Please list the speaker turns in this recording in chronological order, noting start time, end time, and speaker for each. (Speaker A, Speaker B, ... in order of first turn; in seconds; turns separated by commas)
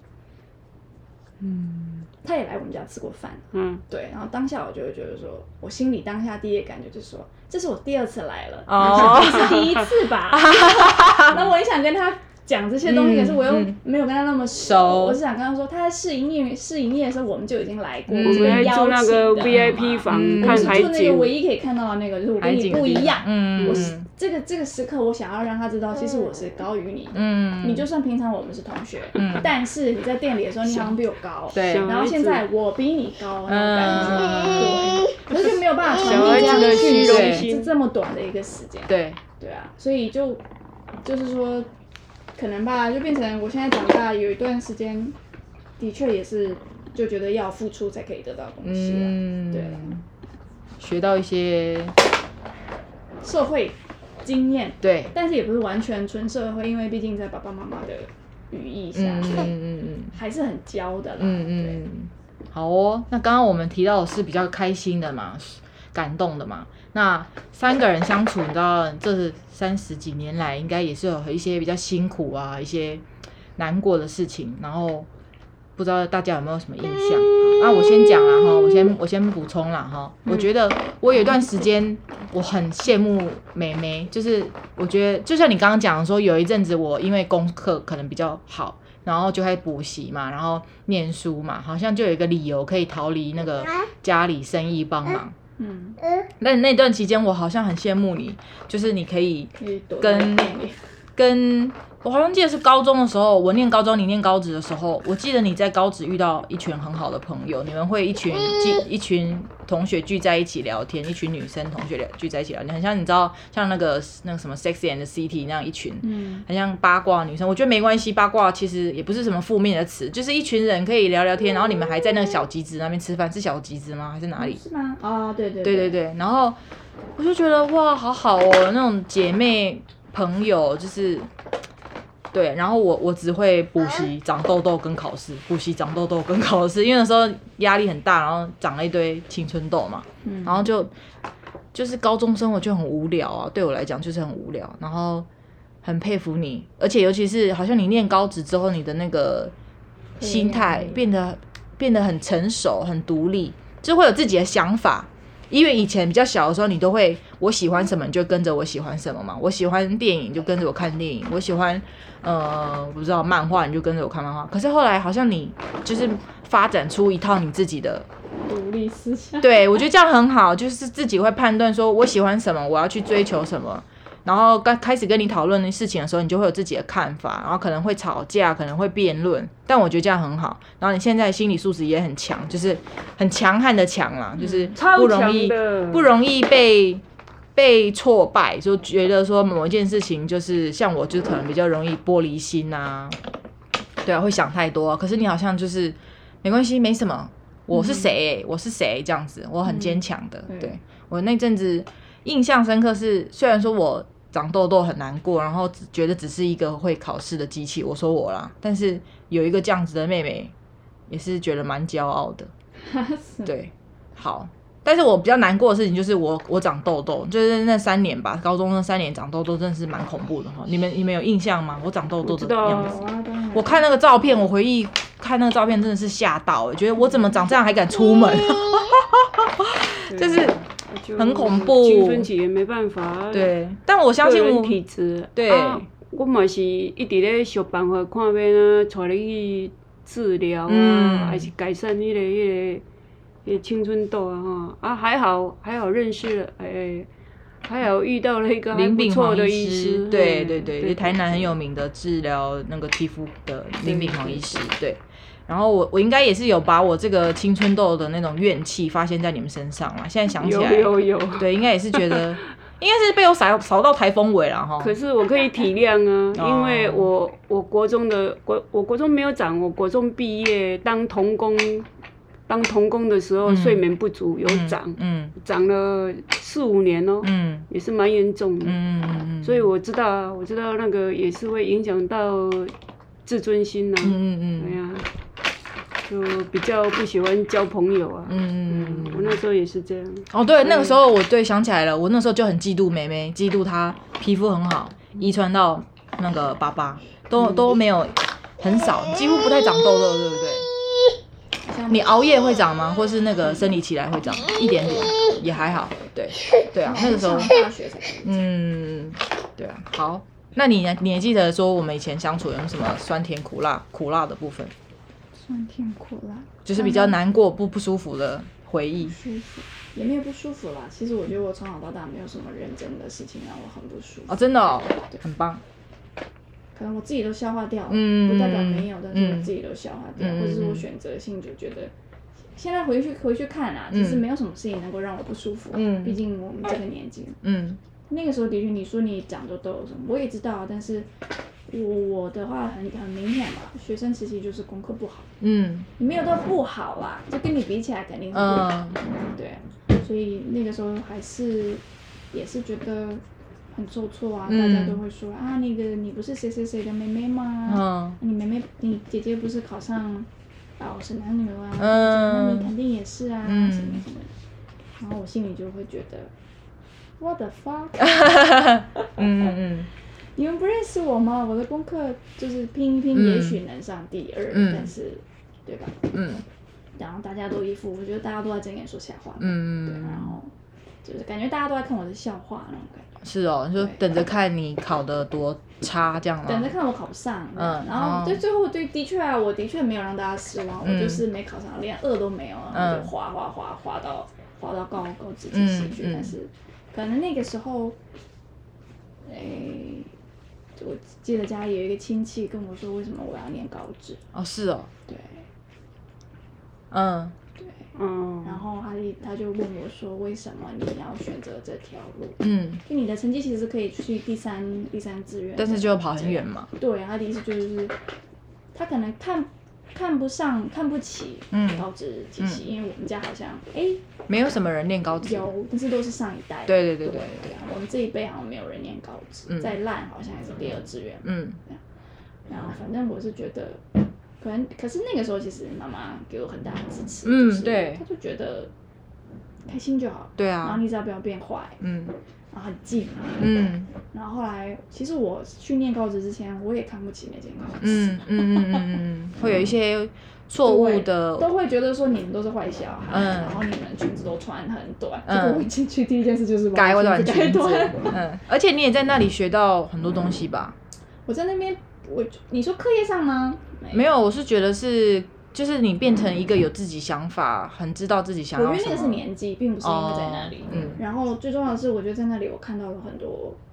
Speaker A: 2.2-40.4, Speaker B: 3.5-3.8, Speaker C: 8.7-11.5, Speaker B: 8.9-9.6, Speaker C: 12.8-13.8, Speaker C: 14.6-15.2, Speaker C: 18.1-18.7, Speaker B: 18.2-21.3, Speaker C: 19.5-20.9, Speaker C: 22.4-24.1, Speaker B: 23.6-23.9, Speaker C: 27.1-27.9, Speaker C: 29.1-29.5, Speaker C: 31.5-31.9, Speaker B: 31.5-32.4, Speaker C: 33.5-35.0, Speaker B: 36.0-37.7, Speaker C: 36.1-37.5, Speaker C: 38.9-39.2, Speaker A: 41.0-41.7, Speaker A: 42.4-45.1, Speaker A: 45.8-50.0, Speaker C: 48.6-50.0, Speaker C: 50.8-52.0, Speaker A: 53.2-59.5, Speaker C: 54.8-55.1, Speaker C: 58.9-60.1, Speaker A: 60.1-61.8, Speaker C: 61.2-73.0, Speaker C: 73.6-75.1, Speaker C: 75.8-95.3, Speaker A: 95.6-96.0, Speaker C: 96.4-100.5, Speaker A: 99.6-100.8, Speaker C: 101.2-124.6, Speaker A: 116.0-116.4, Speaker A: 124.4-126.0, Speaker C: 125.6-126.6, Speaker C: 127.2-131.3, Speaker C: 132.3-140.9, Speaker A: 140.2-140.7, Speaker C: 141.7-145.3, Speaker C: 145.8-149.5, Speaker A: 150.2-151.0, Speaker C: 150.2-168.1, Speaker A: 168.4-169.8, Speaker C: 169.4-187.0, Speaker B: 184.7-186.1, Speaker C: 187.6-193.2, Speaker C: 194.0-210.5, Speaker A: 199.7-200.8, Speaker C: 211.1-212.5, Speaker A: 212.8-213.5, Speaker C: 213.4-223.0, Speaker B: 222.2-223.0, Speaker A: 222.7-223.9, Speaker C: 223.5-230.6, Speaker B: 230.1-233.5, Speaker C: 231.2-232.3, Speaker C: 233.3-234.8, Speaker B: 234.2-242.8, Speaker C: 235.3-235.8, Speaker C: 240.7-241.5, Speaker B: 243.4-247.1, Speaker B: 247.6-251.5, Speaker C: 248.7-264.9, Speaker B: 253.8-254.6, Speaker B: 260.4-262.3, Speaker B: 264.8-271.9, Speaker C: 266.3-267.1, Speaker B: 272.5-278.8, Speaker C: 273.4-273.9, Speaker C: 274.4-275.3, Speaker C: 277.2-277.6, Speaker C: 278.6-279.7, Speaker B: 279.4-282.7, Speaker B: 283.2-285.1, Speaker C: 284.0-284.8, Speaker B: 286.1-291.0, Speaker C: 288.3-289.4, Speaker C: 290.3-300.7, Speaker A: 301.6-302.2, Speaker C: 301.9-307.6, Speaker A: 306.8-308.4, Speaker C: 308.2-314.7, Speaker A: 315.4-317.2, Speaker C: 316.6-319.2, Speaker A: 319.0-324.4, Speaker C: 324.3-325.6, Speaker A: 326.7-331.9, Speaker C: 327.9-329.5, Speaker C: 330.2-330.8, Speaker A: 332.6-337.4, Speaker C: 333.9-334.2, Speaker C: 335.7-336.2, Speaker C: 337.4-337.8, Speaker A: 338.1-341.1, Speaker A: 341.7-345.3, Speaker C: 345.4-345.9, Speaker A: 346.0-353.2, Speaker C: 348.3-349.0, Speaker A: 353.7-360.3, Speaker C: 354.5-355.0, Speaker C: 357.7-358.2, Speaker A: 360.8-364.3, Speaker C: 361.8-362.7, Speaker C: 363.4-364.0, Speaker A: 365.0-366.3, Speaker A: 367.2-369.6, Speaker C: 368.0-369.9, Speaker A: 370.4-376.1, Speaker C: 373.1-373.6, Speaker C: 374.5-374.9, Speaker C: 376.1-376.4, Speaker A: 376.9-380.5, Speaker C: 379.4-380.3, Speaker A: 381.0-383.2, Speaker C: 383.2-386.7, Speaker A: 383.8-384.1, Speaker A: 386.4-398.0, Speaker C: 387.6-388.4, Speaker C: 390.8-391.2, Speaker C: 392.7-393.1, Speaker C: 395.5-396.3, Speaker A: 399.2-400.1, Speaker A: 400.8-404.2, Speaker C: 404.3-404.9, Speaker A: 405.1-405.4, Speaker C: 406.9-407.3, Speaker A: 407.6-407.8, Speaker B: 407.9-408.6, Speaker A: 408.4-417.9, Speaker C: 412.4-412.8, Speaker C: 415.6-416.7, Speaker A: 418.7-424.0, Speaker C: 421.5-421.8, Speaker C: 424.3-425.5, Speaker A: 425.2-431.8, Speaker C: 426.7-427.5, Speaker C: 429.5-429.7, Speaker C: 431.2-431.6, Speaker A: 432.5-433.8, Speaker A: 434.4-438.7, Speaker C: 437.2-438.0, Speaker A: 439.6-441.8, Speaker C: 440.4-440.8, Speaker C: 441.8-442.1, Speaker A: 442.5-448.9, Speaker C: 443.4-443.9, Speaker C: 447.8-451.5, Speaker A: 450.6-458.2, Speaker C: 453.1-453.6, Speaker C: 455.3-455.7, Speaker C: 456.7-460.8, Speaker A: 461.3-464.0, Speaker C: 463.9-469.2, Speaker A: 468.5-473.6, Speaker C: 469.8-471.0